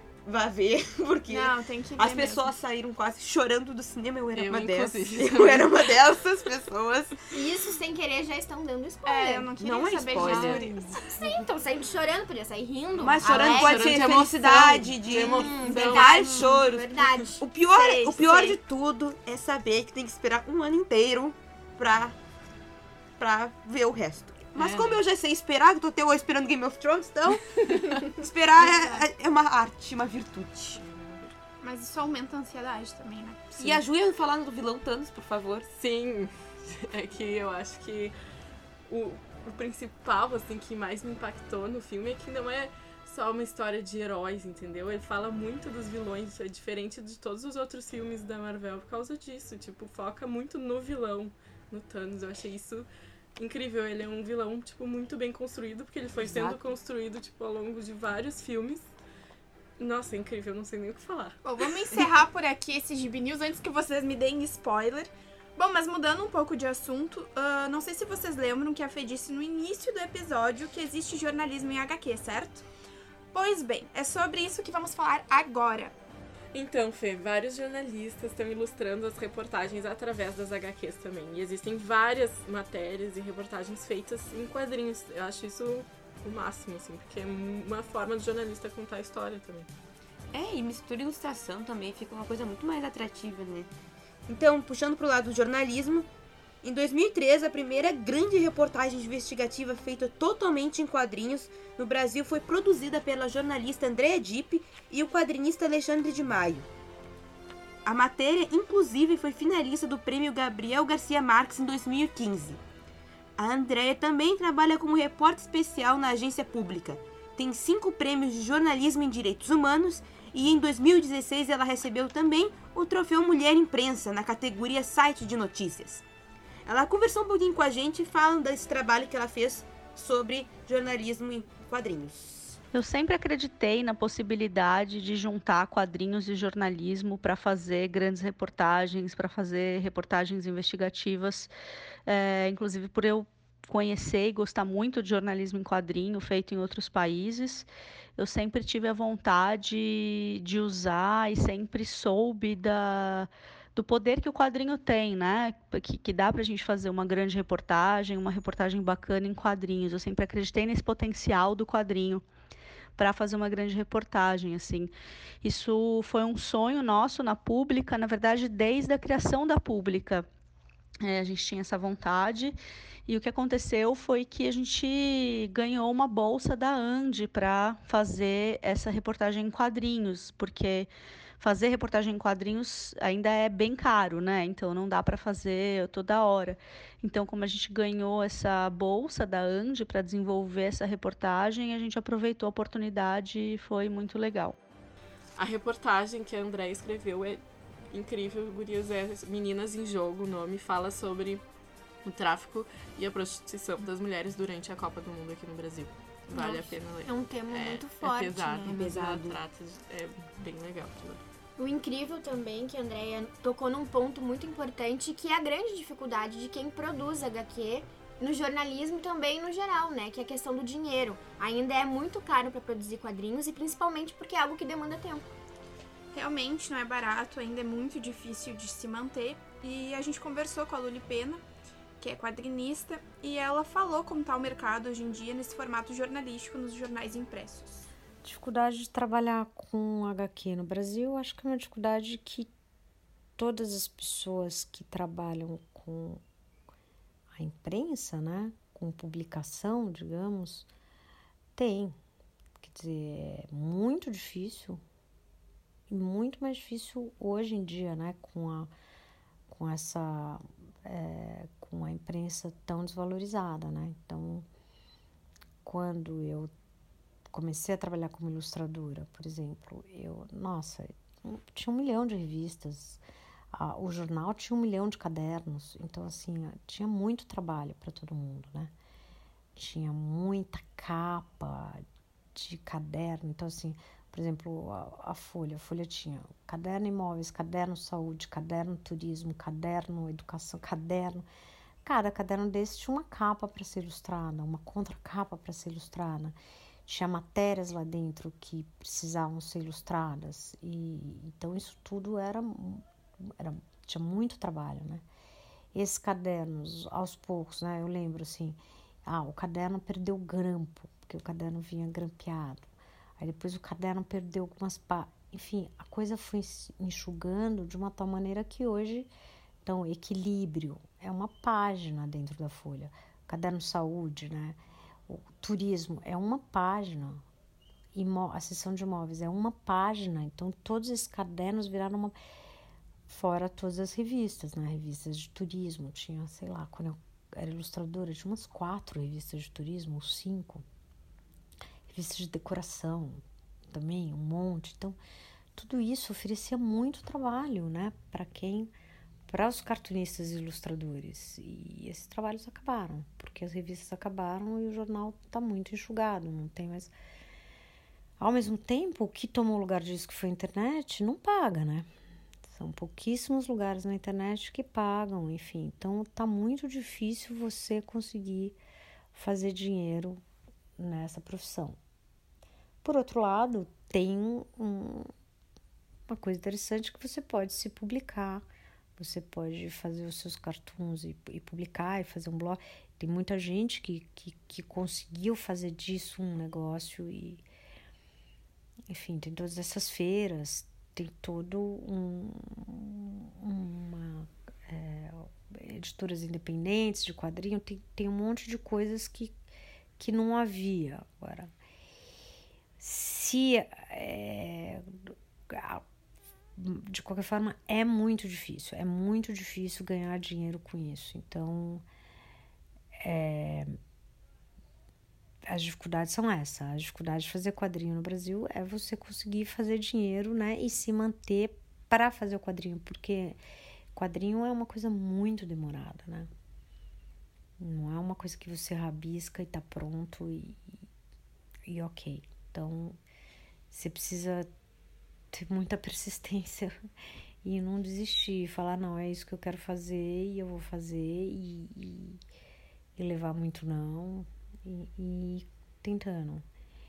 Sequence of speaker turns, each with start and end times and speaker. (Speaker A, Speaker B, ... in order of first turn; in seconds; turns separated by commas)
Speaker A: 0.3-7.4, Speaker B: 1.3-2.6, Speaker C: 4.3-6.1, Speaker D: 7.3-9.5, Speaker B: 9.1-11.0, Speaker A: 9.6-10.7, Speaker C: 10.2-11.0, Speaker D: 11.1-13.9, Speaker A: 12.9-22.2, Speaker C: 13.2-16.6, Speaker D: 15.1-18.6, Speaker A: 23.2-30.8, Speaker C: 24.6-25.0, Speaker C: 27.6-28.1, Speaker B: 28.6-29.0, Speaker C: 30.7-31.3, Speaker B: 31.6-33.8, Speaker A: 33.5-35.7, Speaker C: 35.8-38.1, Speaker C: 38.9-58.9, Speaker A: 56.2-56.6, Speaker C: 59.8-61.4, Speaker B: 61.4-72.7, Speaker B: 73.3-76.0, Speaker C: 76.5-89.7, Speaker A: 90.3-93.7, Speaker A: 94.3-96.1, Speaker A: 96.6-106.7, Speaker A: 107.8-112.6, Speaker A: 113.4-126.0, Speaker A: 126.7-132.6, Speaker E: 132.7-141.5, Speaker E: 142.1-162.2, Speaker E: 163.0-164.9, Speaker E: 165.4-170.3, Speaker E: 171.0-172.6, Speaker E: 173.1-194.6, Speaker C: 195.4-201.4, Speaker C: 202.0-211.2, Speaker D: 206.3-208.7, Speaker A: 208.7-209.4, Speaker D: 211.6-225.3, Speaker B: 226.1-231.4, Speaker B: 232.0-237.9, Speaker F: 238.2-242.5, Speaker F: 243.4-246.2, Speaker F: 247.3-250.7, Speaker F: 251.6-252.0, Speaker F: 252.6-254.8, Speaker F: 255.9-258.7, Speaker F: 259.5-264.5, Speaker F: 265.6-266.5, Speaker F: 267.3-273.0, Speaker F: 273.5-278.7, Speaker F: 279.6-291.3, Speaker F: 291.8-305.0, Speaker F: 305.7-312.7, Speaker F: 313.2-319.1, Speaker F: 319.6-327.2, Speaker F: 327.9-332.1, Speaker F: 333.1-340.6, Speaker F: 341.9-345.0, Speaker F: 345.6-348.7, Speaker F: 349.3-356.9, Speaker F: 358.2-361.9, Speaker F: 362.5-368.6, Speaker F: 369.1-370.2, Speaker F: 370.8-371.8, Speaker F: 372.8-375.1, Speaker F: 376.1-378.4, Speaker F: 379.0-387.4, Speaker F: 388.9-399.3, Speaker F: 400.0-401.5, Speaker F: 402.8-405.8, Speaker F: 406.6-411.8, Speaker F: 413.0-413.8, Speaker F: 415.5-423.4, Speaker F: 423.9-426.3, Speaker F: 427.6-430.8, Speaker F: 431.7-433.0, Speaker F: 433.7-434.5, Speaker F: 435.3-436.8, Speaker F: 437.4-442.2, Speaker F: 443.0-446.5